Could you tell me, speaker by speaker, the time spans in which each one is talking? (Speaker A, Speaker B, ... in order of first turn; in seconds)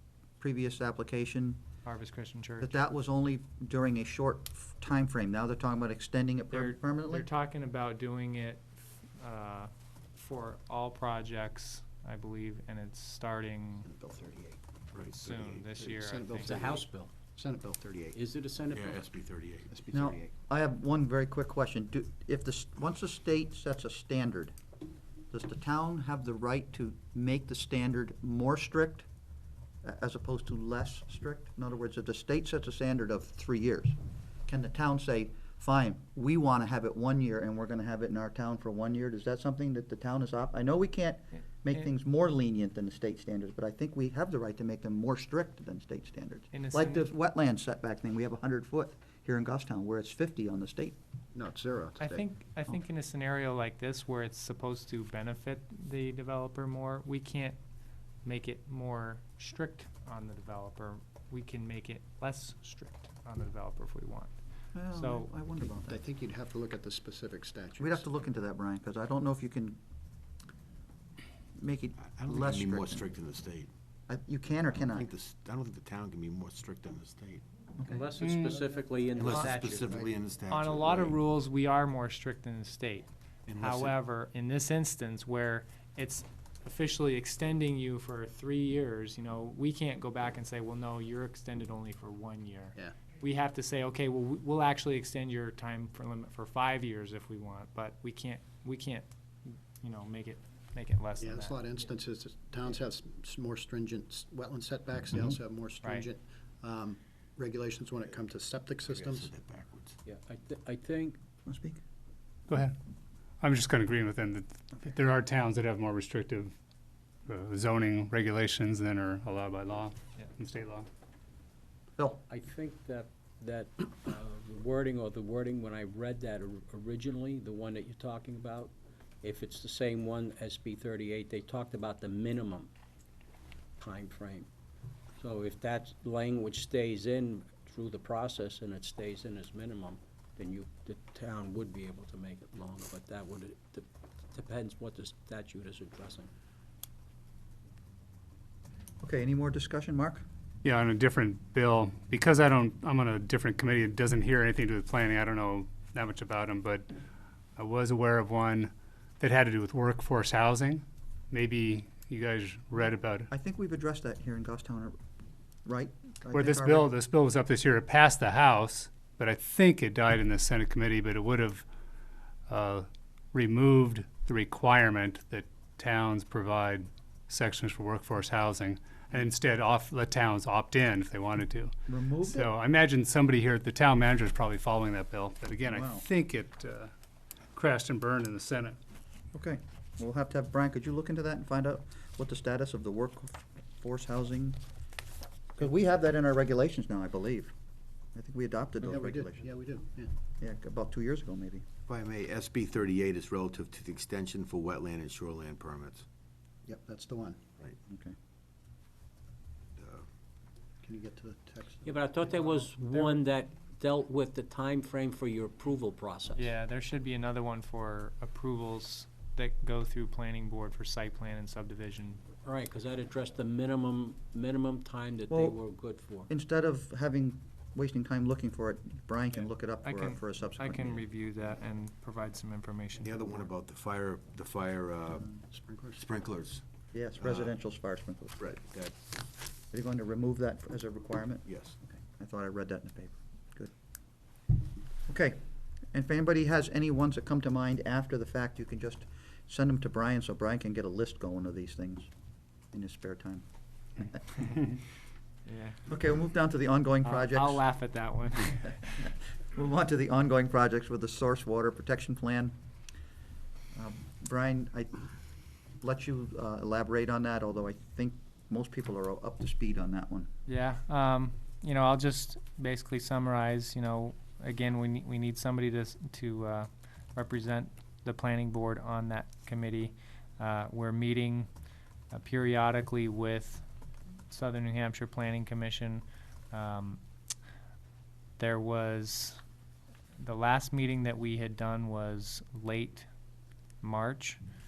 Speaker A: 0.4-1.6, 2.6-7.3, 19.9-24.5, 25.3-29.1, 29.8-51.0, 64.7-66.0, 67.8-69.8, 71.6-73.0, 74.1-75.1, 77.8-78.1, 111.5-111.8, 149.0-150.2, 163.3-165.0, 165.7-166.9, 181.9-182.5, 185.7-186.1, 189.3-194.6, 195.6-197.5, 198.1-199.5, 200.4-201.6, 207.9-208.1, 225.3-231.1, 236.9-238.7, 239.7-243.7, 245.1-245.4, 245.9-252.1, 252.7-253.4, 254.0-254.7, 255.9-257.6, 259.0-262.6, 263.7-265.0, 265.8-270.3
Speaker B: 1.9-2.8, 6.5-13.9, 15.0-16.7, 46.5-47.1, 52.0-57.6, 58.2-64.3, 64.9-65.3, 80.5-101.6, 105.8-106.1, 212.8-213.2, 216.4-222.2, 229.3-233.4, 255.5-255.8, 257.0-259.0, 270.5-281.5, 282.1-283.6, 284.3-287.0, 288.4-289.4, 290.2-293.1, 293.8-294.4
Speaker C: 13.9-14.6, 15.8-18.2, 19.7-20.3, 51.4-52.3, 65.7-68.1, 79.3-80.2, 101.2-109.3, 198.8-200.1, 206.7-207.5, 210.8-212.1, 235.4-236.1
Speaker D: 14.9-15.7, 18.7-19.7, 72.1-73.7, 74.8-77.5, 79.2-81.2, 83.5-84.0, 108.9-110.0, 201.9-206.1, 209.8-210.1, 233.0-235.4, 236.0-236.6, 237.2-237.5, 238.4-238.9, 241.5-241.8
Speaker E: 16.4-17.1, 18.1-19.1, 77.9-80.0, 110.1-111.2, 122.3-132.7, 133.8-134.5, 135.2-146.3, 211.8-216.5, 222.4-226.3
Speaker F: 78.2-78.5, 112.5-112.8, 113.4-116.5, 117.3-120.9, 150.6-156.9, 157.6-163.3, 166.3-171.7, 172.5-186.9, 187.5-188.8